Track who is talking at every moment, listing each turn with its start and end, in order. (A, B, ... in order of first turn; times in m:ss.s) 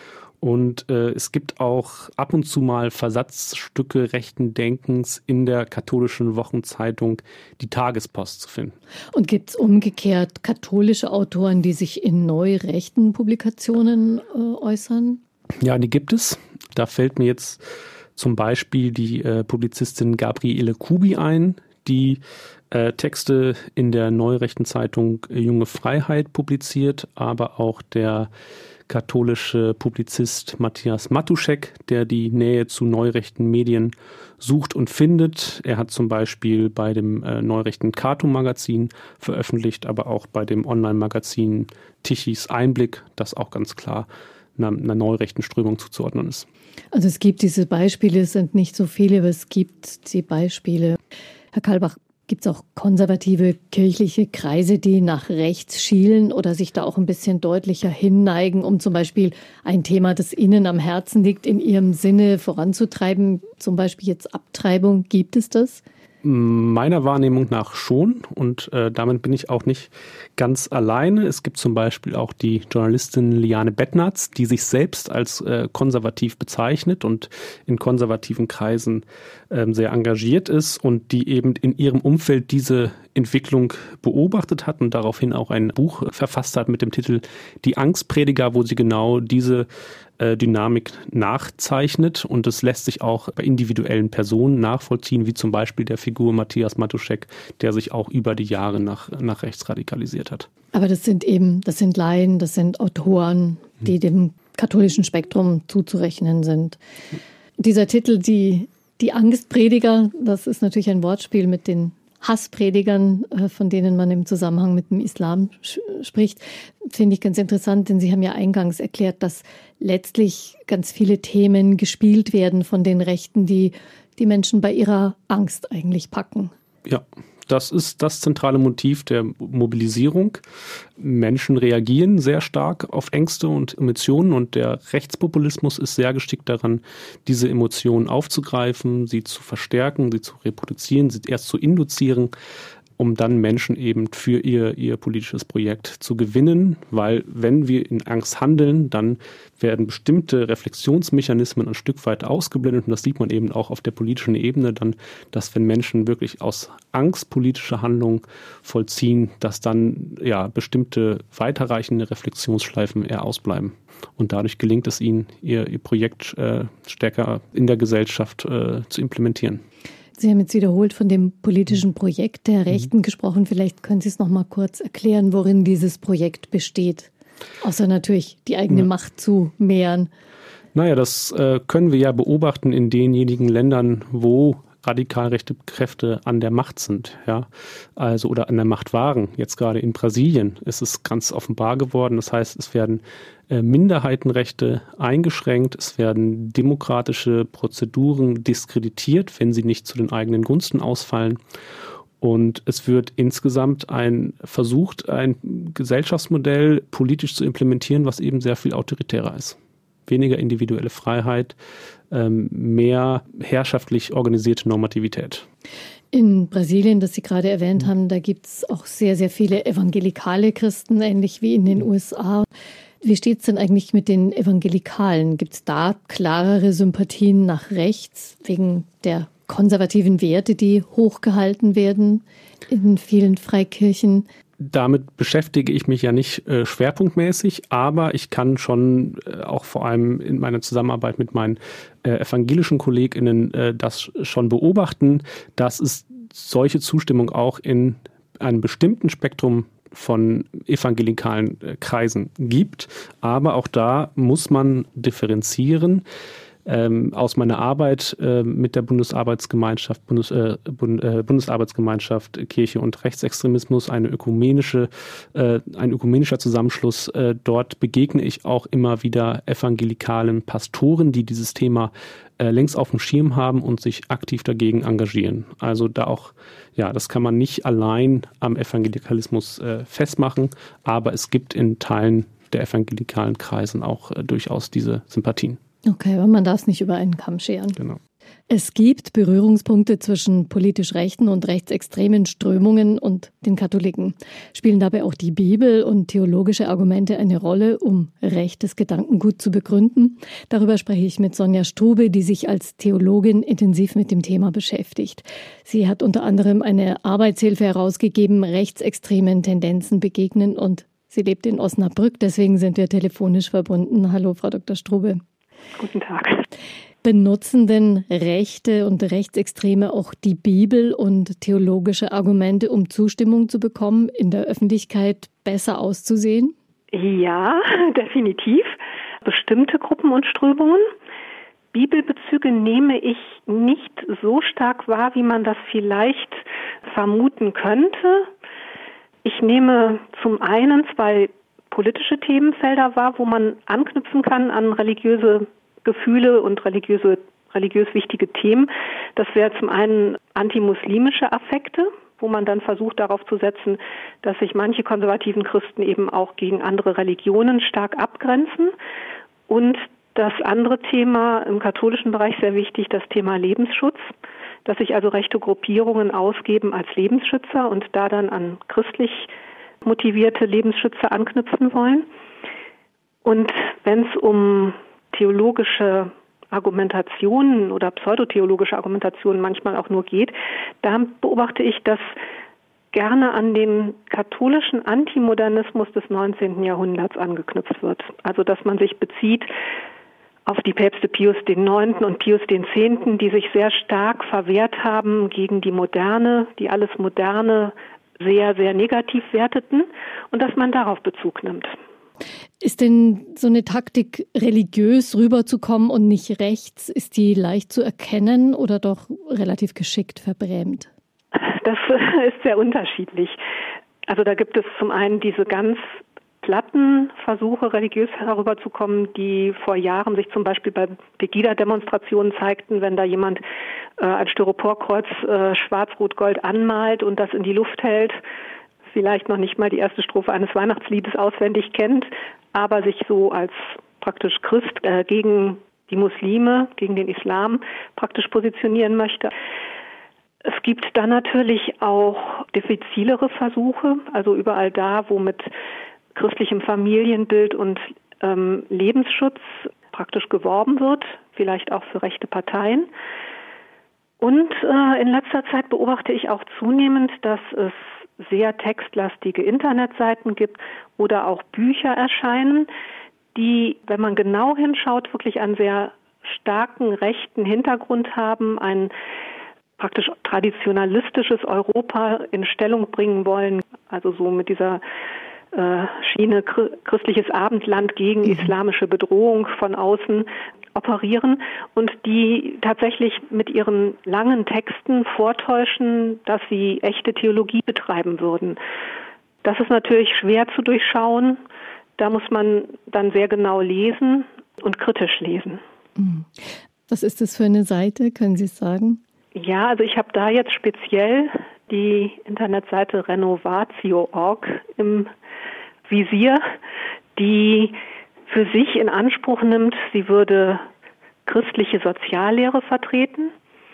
0:00.4-0:08.8 A
0:09.1-0:15.2 B
0:15.6-0:17.6 A
0:18.2-0:28.3 A
0:28.9-0:46.5 A
0:46.9-0:51.0 B
0:51.5-1:05.8 B
1:06.2-1:29.7 A
1:30.2-1:40.5 A
1:40.7-1:46.8 B
1:47.6-2:06.5 B
2:06.8-2:10.4 A
2:11.0-2:22.3 A
2:23.0-2:49.6 A
2:50.2-2:57.1 B
2:57.6-3:00.1 B
3:00.7-3:21.4 A
3:22.2-3:31.6 A
3:32.1-3:35.5 A
3:36.1-3:42.5 B
3:43.0-3:54.3 B
3:54.6-4:16.0 A
4:16.6-4:45.6 A
4:45.8-4:47.8 B
4:48.5-5:15.2 B
5:15.8-5:16.4 C
5:17.0-5:26.6 B
5:26.9-5:30.8 C
5:31.7-5:38.3 C
5:39.2-5:58.7 C
5:59.5-6:04.1 C
6:04.6-6:09.3 C
6:09.8-6:12.0 C
6:13.2-6:22.1 C
6:22.9-6:29.5 C
6:30.5-6:41.7 C
6:42.6-6:50.9 B
6:51.3-6:53.4 C
6:54.1-6:55.8 C
6:56.4-7:03.4 C
7:04.0-7:08.2 C
7:08.9-7:19.3 C
7:20.4-7:25.5 C
7:26.1-7:32.9 C
7:34.2-7:42.7 C
7:43.4-7:48.9 C
7:49.8-7:54.8 C
7:55.5-8:08.6 C
8:09.4-8:11.4 C
8:12.0-8:15.6 C
8:16.0-8:16.3 B
8:16.9-8:19.0 B
8:19.3-8:25.1 C
8:25.9-8:26.4 C
8:27.2-8:27.8 C
8:28.3-8:30.6 C
8:31.2-8:33.3 C